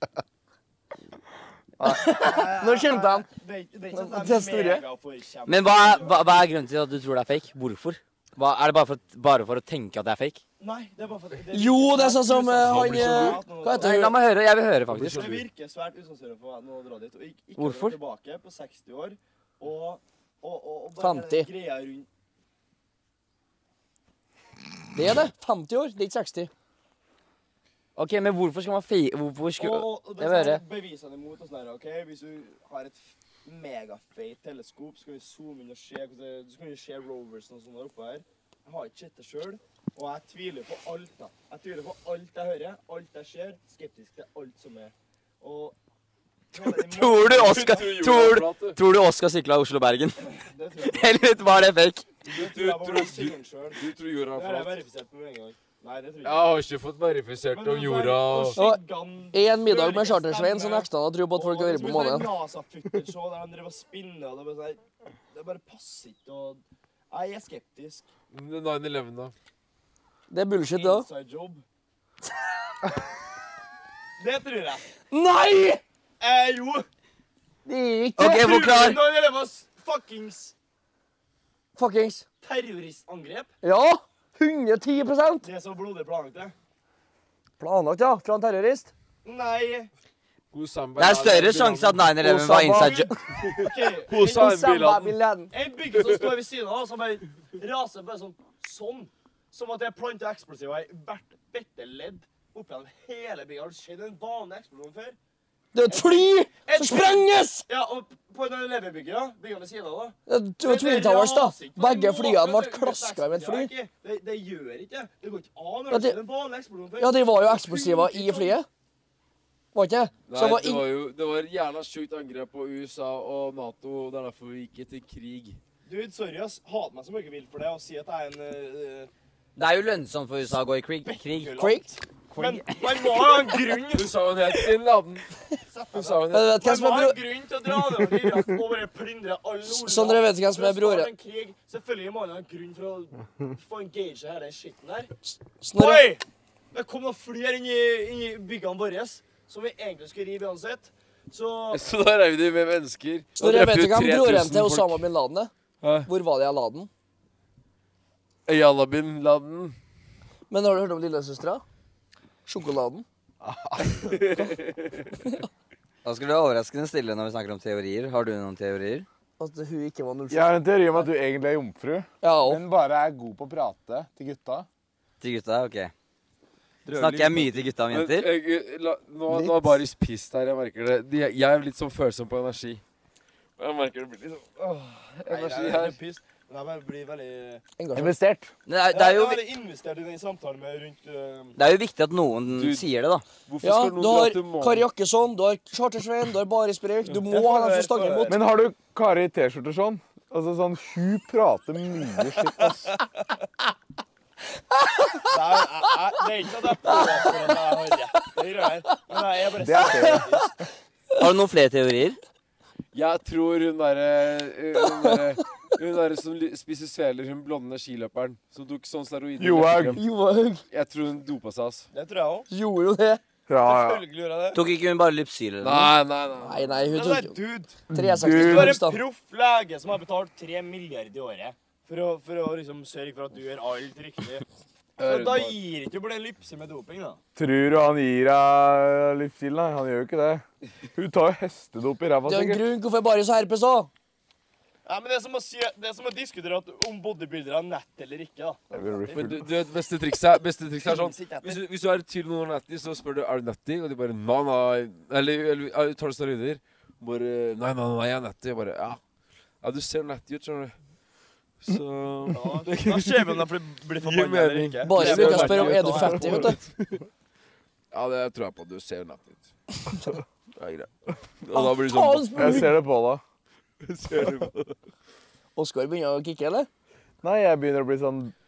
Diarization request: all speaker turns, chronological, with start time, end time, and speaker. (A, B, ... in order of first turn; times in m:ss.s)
0:01.8-0:02.1 A
0:01.8-0:03.3 B
0:02.0-0:06.4 C
0:03.9-0:04.8 B
0:05.4-0:10.4 D
0:10.6-0:14.1 C
0:11.5-0:14.2 B
0:12.6-0:13.4 E
0:13.8-0:15.3 D
0:14.9-0:15.4 E
0:15.0-0:22.1 C
0:17.6-0:18.0 D
0:21.0-0:21.5 B
0:24.9-0:26.5 B
0:28.0-0:30.6 D
0:29.6-0:45.8 C
0:46.5-0:47.9 C
0:46.6-0:50.2 D
0:47.4-0:48.8 E
0:50.3-0:51.2 C
0:50.8-0:52.1 D
0:52.2-0:53.8 C
0:52.2-0:54.8 E
0:54.3-0:56.5 C
0:56.2-0:58.6 E
0:57.5-1:08.1 C
0:58.6-0:58.8 B
0:59.3-1:02.3 B
1:08.3-1:09.3 E
1:10.3-1:11.0 B
1:10.7-1:11.6 C
1:14.2-1:14.8 C
1:15.1-1:15.8 B
1:16.2-1:16.9 C
1:17.6-1:18.5 B
1:18.2-1:19.0 D
1:18.2-1:20.5 C
1:21.8-1:22.2 B
1:22.4-1:23.5 C
1:23.6-1:25.5 B
1:25.4-1:26.5 C
1:27.6-1:28.9 B
1:29.2-1:29.9 C
1:30.5-1:32.2 E
1:31.0-1:33.1 D
1:32.2-1:33.2 B
1:32.7-1:34.5 C
1:33.3-1:35.2 E
1:34.1-1:35.5 B
1:35.5-1:45.2 C
1:35.9-1:36.4 E
1:45.7-1:47.6 B
1:45.9-1:58.6 C
1:50.3-1:53.7 B
1:55.9-1:56.2 B
1:57.0-1:58.6 B
1:59.7-2:00.8 B
2:00.3-2:05.6 E
2:05.8-2:09.1 C
2:09.6-2:11.6 D
2:11.0-2:14.1 C
2:11.6-2:11.9 B
2:12.4-2:13.0 D
2:13.9-2:15.3 E
2:15.7-2:25.1 C
2:15.9-2:16.6 E
2:16.3-2:17.2 B
2:19.6-2:21.1 B
2:25.2-2:26.1 B
2:25.7-2:31.8 C
2:31.7-2:35.0 E
2:33.4-2:35.5 B
2:35.8-2:36.1 E
2:36.0-2:36.9 B
2:38.4-2:39.8 E
2:40.5-2:41.6 B
2:42.4-2:43.0 B
2:43.4-2:44.2 A
2:43.9-2:45.0 E
2:46.0-2:49.0 D
2:49.4-2:50.5 B
2:50.3-2:54.7 A
2:52.2-2:52.6 B
2:55.2-2:55.9 D
2:56.9-2:57.6 C
2:56.9-2:58.3 D
2:57.0-2:57.2 E
2:57.9-3:02.8 E
2:59.3-2:59.8 A
3:03.6-3:06.0 E
3:05.3-3:07.6 C
3:07.8-3:08.2 B
3:07.9-3:08.5 A
3:08.6-3:09.4 D
3:08.9-3:11.6 C
3:11.6-3:13.2 D
3:12.5-3:12.9 E
3:13.4-3:14.8 E
3:13.6-3:18.4 B
3:17.3-3:18.4 C
3:18.3-3:22.9 A
3:25.3-3:30.6 C
3:27.2-3:27.5 B
3:29.6-3:30.3 A
3:29.8-3:30.2 B
3:31.2-3:32.2 D
3:32.9-3:40.0 E
3:34.8-3:35.2 B
3:39.4-3:40.0 A
3:39.9-3:40.6 B
3:40.7-3:41.9 E
3:41.9-3:42.5 C
3:42.5-3:43.2 B
3:43.5-3:44.0 A
3:43.6-3:44.6 C
3:44.5-3:45.9 D
3:45.6-3:46.7 E
3:46.4-3:47.4 B
3:46.9-3:54.4 C
3:47.9-3:49.0 B
3:47.9-3:48.8 A
3:55.0-3:55.6 E
3:55.0-3:57.2 C
3:57.4-4:02.7 A
4:02.2-4:03.9 B
4:04.8-4:09.3 C
4:08.7-4:09.4 A
4:09.1-4:19.0 E
4:10.8-4:11.6 C
4:19.6-4:20.7 E
4:21.6-4:27.0 E
4:22.3-4:26.6 C
4:24.8-4:26.6 B
4:27.9-4:29.5 E
4:30.5-4:32.6 E
4:31.5-4:32.7 B
4:32.3-4:33.2 A
4:33.8-4:34.7 E
4:35.6-4:36.7 B
4:37.2-4:38.3 A